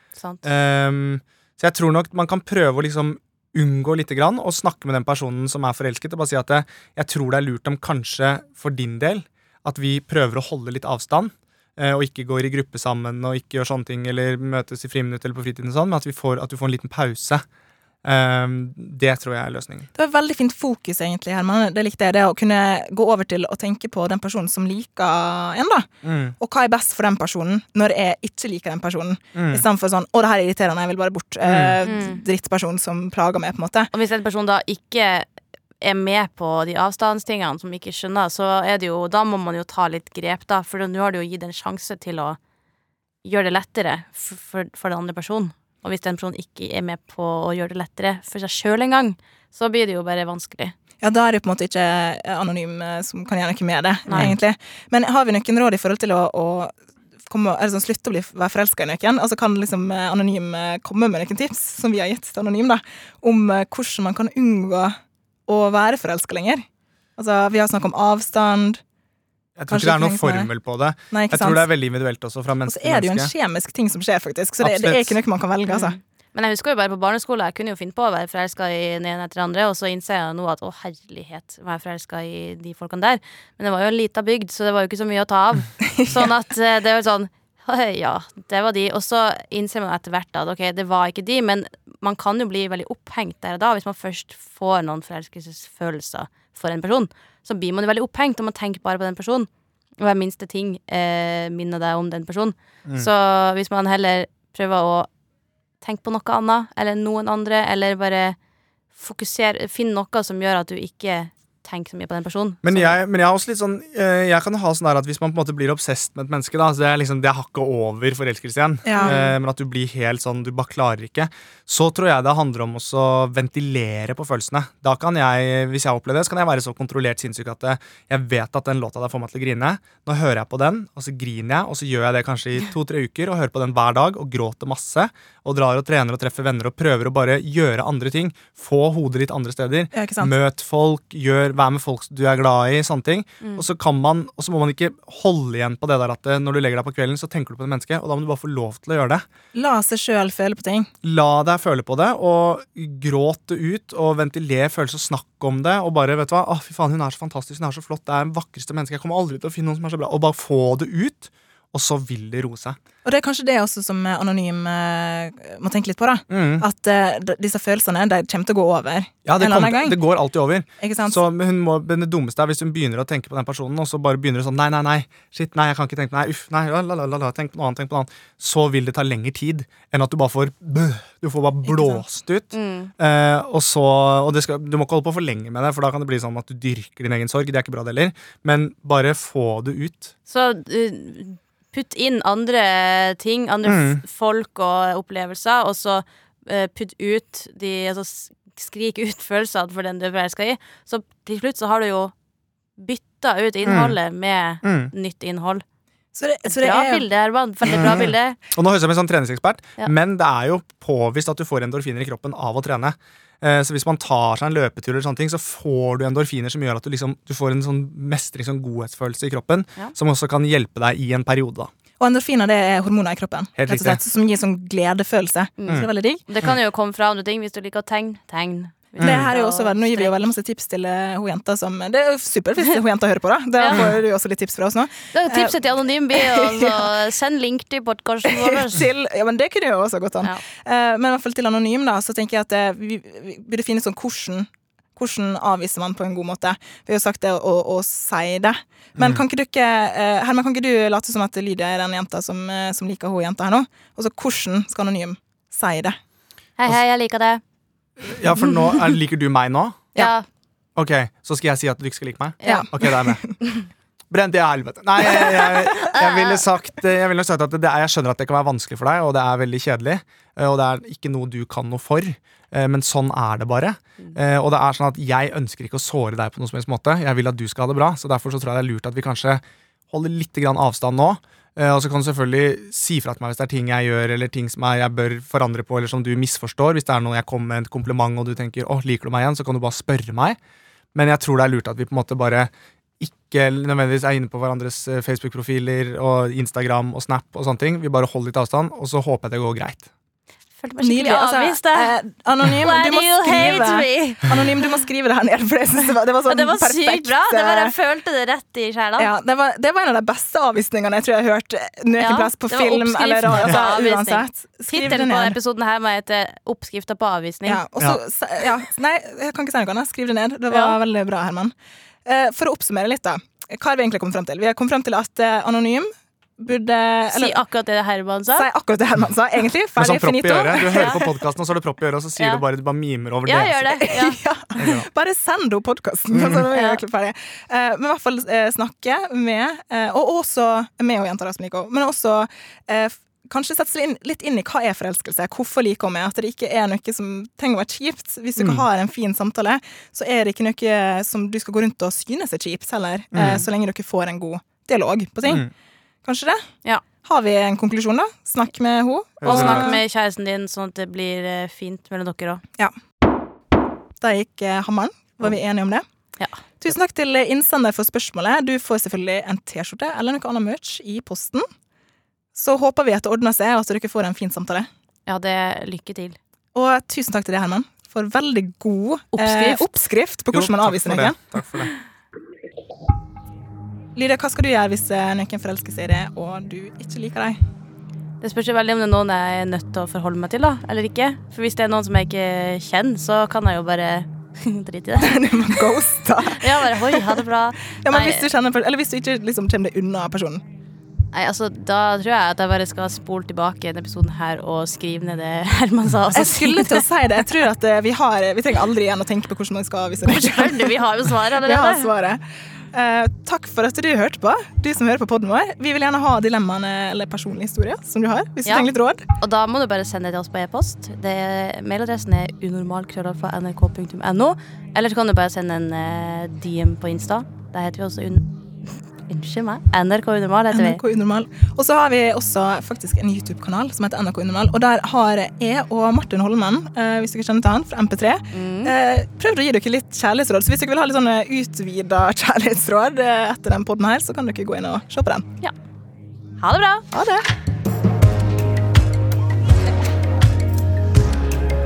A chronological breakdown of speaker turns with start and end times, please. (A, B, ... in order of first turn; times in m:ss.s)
0:00.2-0:00.5 A
0:00.4-0:17.4 B
0:18.0-0:19.9 B
0:20.0-0:25.9 C
0:26.0-0:26.3 B
0:26.4-0:33.9 C
0:29.3-0:29.6 B
0:31.4-0:31.8 B
0:31.9-0:32.2 A
0:33.9-0:35.3 A
0:35.8-0:42.4 A
0:43.2-0:50.7 A
0:51.0-0:56.7 C
0:54.1-0:54.4 B
0:57.3-1:05.0 C
1:05.5-1:06.6 C
1:07.2-1:08.8 C
1:09.6-1:13.3 B
1:09.7-1:10.5 C
1:11.1-1:11.7 C
1:12.7-1:16.0 C
1:14.6-1:15.2 B
1:15.7-1:39.5 A
1:25.9-1:26.3 C
1:40.0-1:45.1 A
1:42.8-1:43.1 B
1:45.8-1:48.4 A
1:49.0-1:53.0 A
1:52.6-2:29.2 B
1:58.8-1:59.2 C
1:59.0-1:59.4 A
2:19.9-2:20.3 C
2:23.4-2:23.7 A
2:29.5-2:30.9 C
2:31.0-2:42.8 B
2:43.0-2:50.0 C
2:46.3-2:46.7 B
2:49.2-3:10.1 B
2:50.8-2:51.2 C
3:01.7-3:02.0 C
3:02.5-3:02.9 A
3:10.3-3:22.1 A
3:13.6-3:14.0 B
3:22.8-3:25.6 A
3:23.6-3:24.0 B
3:24.6-3:24.9 B
3:26.2-3:27.1 C
3:26.4-3:28.4 A
3:27.6-3:28.0 C
3:27.7-3:41.7 B
3:42.0-3:46.2 C
3:43.6-3:44.0 B
3:45.6-3:50.2 A
3:49.0-3:57.0 C
3:49.0-3:49.3 B
3:53.6-3:54.0 A
3:55.1-3:58.8 A
3:58.2-4:16.0 C
4:09.0-4:09.2 B
4:16.6-4:17.4 A
4:18.0-4:20.0 B
4:18.6-4:18.9 A
4:20.0-4:20.2 A
4:20.8-4:23.2 B
4:22.4-4:22.7 A
4:22.4-4:23.3 C
4:24.1-4:50.4 B
4:25.1-4:26.4 A
4:51.0-4:59.9 B
5:00.6-5:02.0 A
5:00.8-5:07.8 C
5:02.5-5:04.7 A
5:06.3-5:09.1 A
5:09.0-5:15.4 C
5:12.0-5:17.6 A
5:13.3-5:13.6 B
5:17.4-5:21.5 C
5:20.5-5:20.8 A
5:22.1-5:27.4 C
5:27.1-5:28.5 A
5:28.3-5:31.2 C
5:29.8-5:33.6 B
5:33.3-5:34.2 A
5:33.6-5:55.5 C
5:34.6-5:34.9 B
5:36.1-5:36.4 B
5:36.5-5:36.8 A
5:48.4-5:48.6 B
5:53.1-5:53.5 B
5:56.0-5:56.4 C
5:57.0-5:59.8 C
5:59.2-5:59.8 B
5:59.2-6:02.4 A
6:04.0-6:05.8 C
6:06.6-6:11.5 C
6:12.4-6:14.7 C
6:15.1-6:16.2 A
6:16.6-6:21.2 C
6:19.1-6:19.7 A
6:20.3-6:21.7 B
6:24.0-6:27.4 C
6:28.2-6:35.6 A
6:35.0-6:40.4 C
6:36.4-6:38.3 A
6:41.1-6:46.9 A
6:46.1-6:52.2 C
6:50.1-6:51.9 A
6:52.7-6:59.1 C
6:58.5-7:08.2 A
7:09.1-7:10.8 A
7:10.5-7:25.3 C
7:18.3-7:18.8 A
7:26.4-7:26.8 A
7:26.9-7:27.2 C